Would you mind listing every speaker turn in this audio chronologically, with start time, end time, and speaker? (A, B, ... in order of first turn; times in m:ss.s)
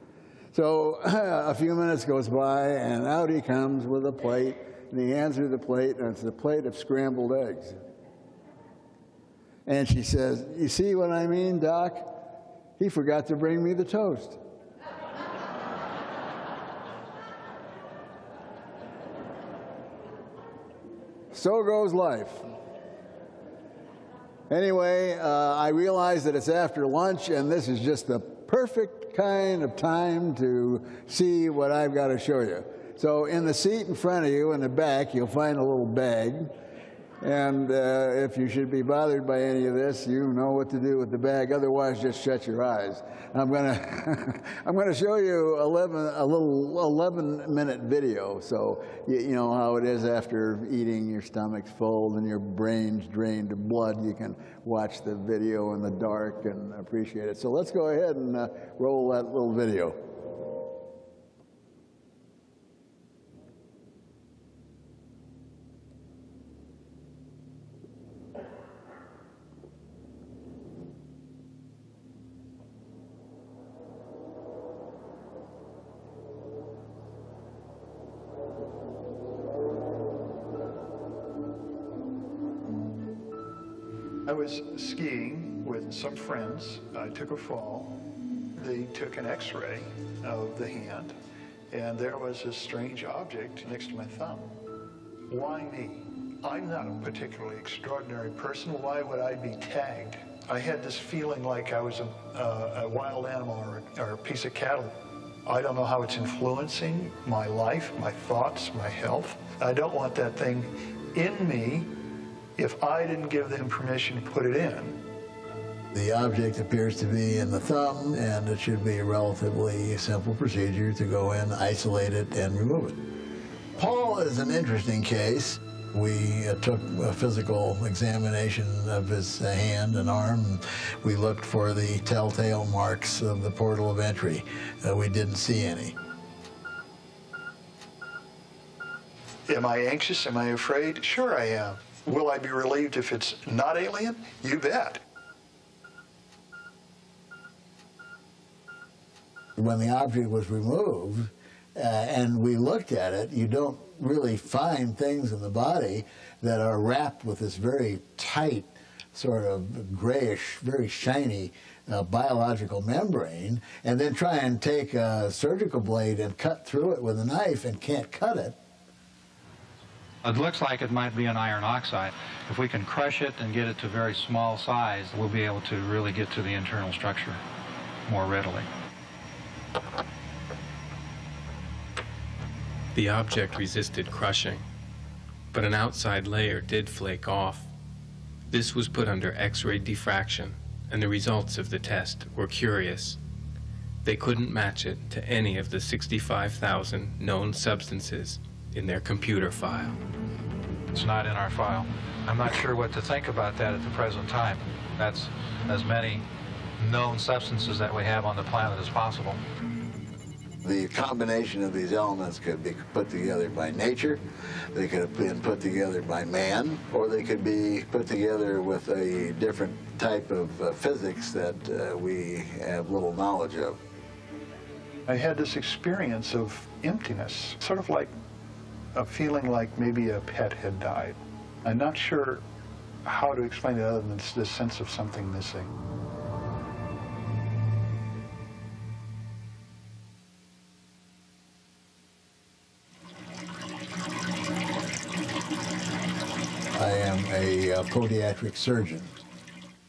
0:00.5-0:07.8 A
0:09.6-0:12.2 A
0:12.8-0:14.4 A
0:21.3-0:22.4 A
0:24.5-0:36.5 A
0:37.2-1:00.2 A
1:24.2-1:28.0 B
1:28.5-1:31.1 B
1:31.7-1:34.5 B
1:35.3-1:44.9 B
1:45.4-1:51.9 B
1:52.6-1:55.0 B
1:55.9-2:03.0 A
2:03.8-2:16.0 A
2:19.5-2:25.0 B
2:29.6-2:48.6 A
2:50.2-2:57.4 C
2:58.1-2:58.7 C
3:02.9-3:04.6 D
3:05.5-3:07.7 D
3:08.5-3:13.2 D
3:14.0-3:20.0 D
3:20.9-3:26.2 C
3:26.8-3:29.4 C
3:30.6-3:43.8 A
3:45.1-3:48.1 B
3:48.9-3:52.4 B
3:53.0-3:55.7 B
4:06.7-4:09.1 A